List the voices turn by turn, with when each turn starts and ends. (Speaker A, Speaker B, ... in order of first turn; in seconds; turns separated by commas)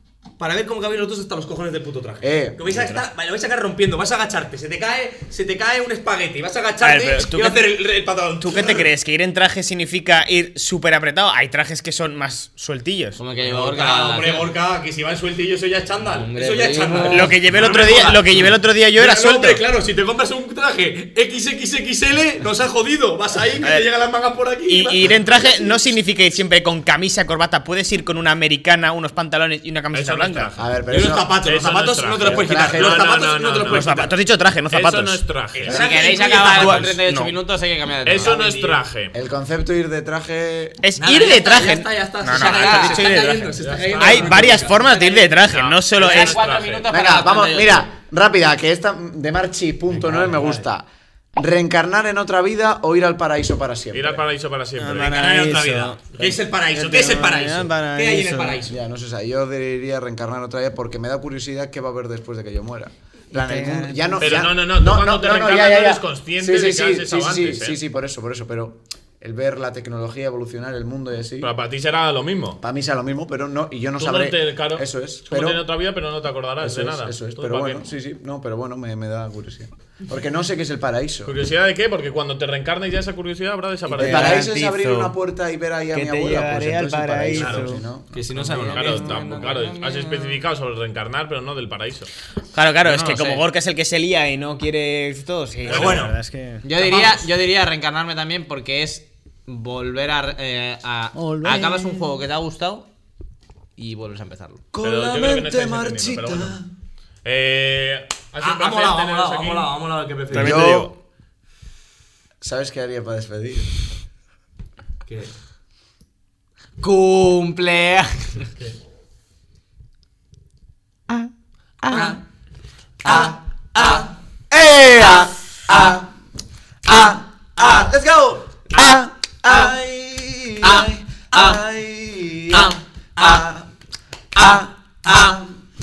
Speaker A: 0.4-8.9, Speaker B: 2.2-3.0, Speaker C: 6.8-7.7, Speaker C: 8.4-13.2, Speaker D: 13.2-14.5, Speaker A: 13.4-25.4, Speaker D: 16.1-17.4, Speaker C: 17.1-19.6, Speaker C: 23.6-23.9, Speaker C: 24.7-30.5, Speaker E: 29.9-30.8, Speaker B: 30.6-31.4, Speaker A: 30.9-34.1, Speaker E: 31.4-33.9, Speaker B: 32.2-33.1, Speaker C: 33.6-37.4, Speaker E: 34.7-35.8, Speaker A: 35.5-37.0, Speaker D: 35.7-38.5, Speaker E: 38.0-39.1, Speaker A: 38.2-38.8, Speaker B: 39.1-40.8, Speaker C: 40.8-46.4, Speaker A: 41.0-44.8, Speaker D: 42.3-43.1, Speaker E: 43.6-44.6, Speaker D: 44.6-45.4, Speaker E: 45.5-46.9, Speaker D: 46.0-47.9, Speaker B: 46.9-54.2, Speaker A: 49.9-50.7, Speaker E: 53.9-55.2, Speaker C: 54.8-56.0, Speaker A: 55.0-58.8, Speaker B: 56.2-56.4, Speaker C: 56.7-58.6, Speaker B: 58.6-71.5, Speaker C: 63.3-64.2, Speaker E: 64.2-67.8, Speaker E: 71.4-72.6, Speaker B: 72.6-75.7, Speaker E: 74.0-77.9, Speaker B: 76.6-81.4, Speaker E: 81.2-84.5, Speaker C: 83.9-85.2, Speaker B: 83.9-88.5, Speaker C: 85.9-87.8, Speaker A: 87.3-89.6, Speaker D: 88.5-90.4, Speaker E: 88.7-92.1, Speaker C: 92.5-97.2, Speaker D: 92.8-93.4, Speaker A: 95.6-96.2, Speaker E: 95.7-96.0, Speaker D: 96.6-102.9, Speaker C: 101.2-102.0, Speaker D: 103.8-104.6, Speaker B: 104.7-106.7, Speaker E: 104.8-106.6, Speaker E: 107.2-109.7, Speaker A: 108.4-110.7, Speaker C: 110.3-110.9, Speaker B: 110.3-111.0, Speaker B: 112.4-113.8, Speaker A: 115.1-115.3, Speaker D: 116.8-118.5, Speaker B: 121.8-122.2, Speaker D: 121.9-122.2, Speaker D: 123.0-124.1, Speaker B: 123.0-126.1, Speaker B: 126.9-133.7, Speaker B: 134.3-135.4